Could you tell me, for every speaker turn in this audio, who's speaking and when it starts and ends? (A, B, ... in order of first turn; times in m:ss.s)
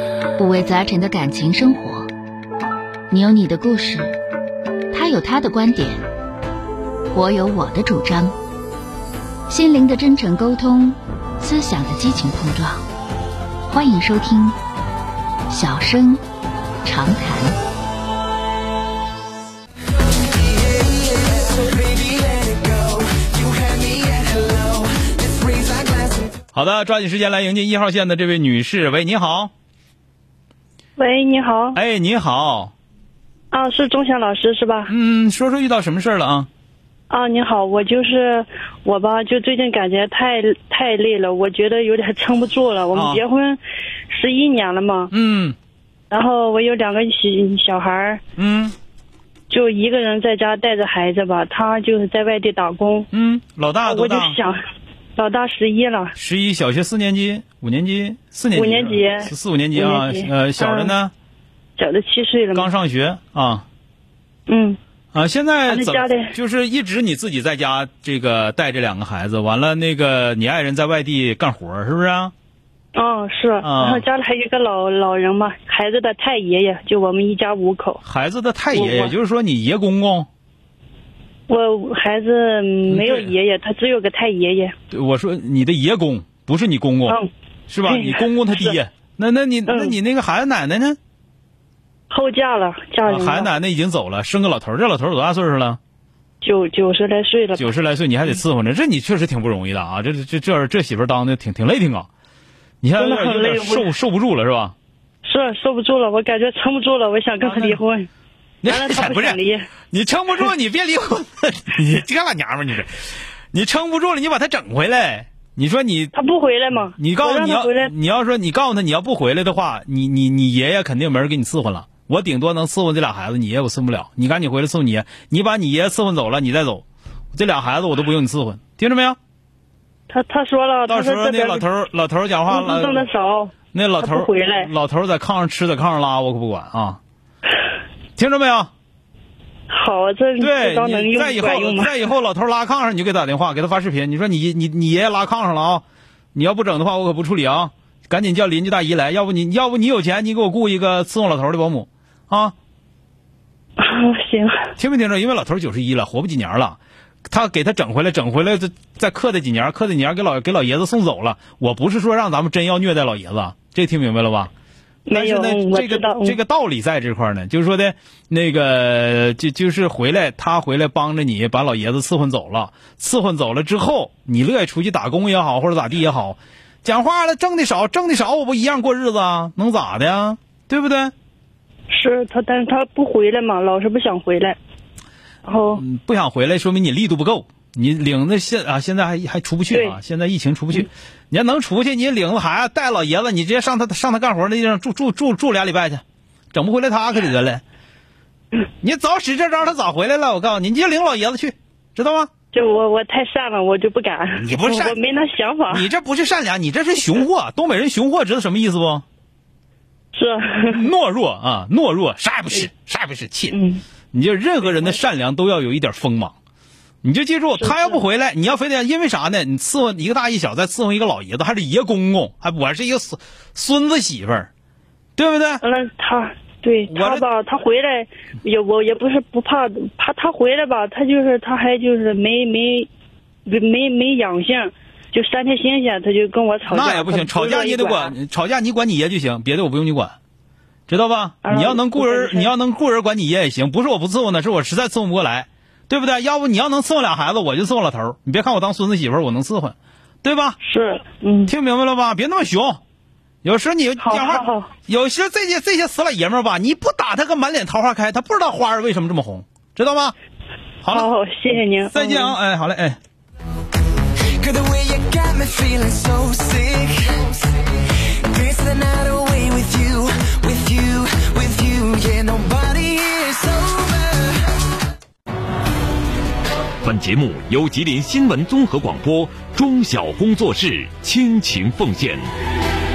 0:00.4-0:02.1 A
0:03.1-0:04.2 A
0:04.9-0:06.0 A
0:07.1-0:08.3 A
0:09.5-0:12.8 A
0:13.7-0:14.6 A
0:15.5-0:16.2 A
0:16.8-0:17.6 A
0:20.6-0:26.3 B
0:26.5-0:29.5 C
0:31.0-0:31.8 D
0:31.7-0:32.7 C
0:33.5-0:34.9 D
0:34.9-0:36.5 C
0:37.1-0:43.6 D
0:42.9-0:43.2 C
0:44.1-0:45.1 D
0:45.1-0:45.6 C
0:46.1-0:48.2 D
0:48.4-0:48.7 C
0:49.5-0:53.1 D
0:53.1-0:54.4 C
0:53.8-0:54.6 D
0:55.2-0:56.1 D
0:56.2-1:01.1 C
0:58.5-1:00.9 D
1:01.8-1:02.7 D
1:02.5-1:03.6 C
1:04.5-1:04.8 D
1:05.1-1:12.3 C
1:05.7-1:06.3 D
1:12.9-1:18.0 D
1:13.6-1:14.0 C
1:18.0-1:20.3 C
1:18.7-1:19.1 D
1:21.5-1:24.7 D
1:22.9-1:23.3 C
1:24.9-1:27.2 C
1:27.7-1:31.0 C
1:27.8-1:28.8 D
1:29.7-1:29.9 D
1:32.1-1:33.5 D
1:33.0-1:35.8 C
1:36.4-1:37.7 D
1:37.6-1:42.1 C
1:42.8-1:44.7 C
1:43.0-1:43.9 D
1:45.2-1:48.1 D
1:47.4-1:47.8 C
1:48.6-1:49.4 C
1:48.6-1:49.7 D
1:49.9-1:52.9 C
1:53.5-1:56.1 C
1:56.1-1:57.9 D
1:57.0-2:09.2 C
2:10.1-2:11.6 D
2:10.9-2:13.1 C
2:12.5-2:14.7 D
2:13.7-2:17.0 C
2:18.2-2:18.7 C
2:19.7-2:21.9 D
2:20.4-2:32.5 C
2:33.8-2:34.7 D
2:34.8-2:44.5 C
2:45.0-2:46.4 D
2:45.1-3:01.1 C
3:01.9-3:04.6 D
3:05.4-3:05.8 D
3:05.8-3:17.6 C
3:09.7-3:10.0 D
3:18.8-3:22.3 C
3:22.5-3:25.9 D
3:24.4-3:25.0 C
3:25.7-3:29.0 C
3:30.1-3:30.8 D
3:30.7-3:33.6 C
3:33.5-3:33.8 D
3:34.1-3:36.3 C
3:34.6-3:35.0 D
3:37.0-3:44.5 C
3:37.6-3:38.0 D
3:45.2-3:45.6 C
3:45.6-3:52.9 D
3:46.9-3:47.2 C
3:53.4-3:58.1 D
3:56.7-4:00.1 C
4:00.9-4:10.6 C
4:01.4-4:02.5 D
4:10.6-4:11.5 D
4:11.5-4:12.8 C
4:13.4-4:20.2 C
4:14.0-4:14.7 D
4:20.8-4:21.1 C
4:20.9-4:22.4 D
4:21.9-4:23.0 C
4:24.4-4:27.4 B
4:28.2-4:34.3 B
4:36.8-4:42.2 E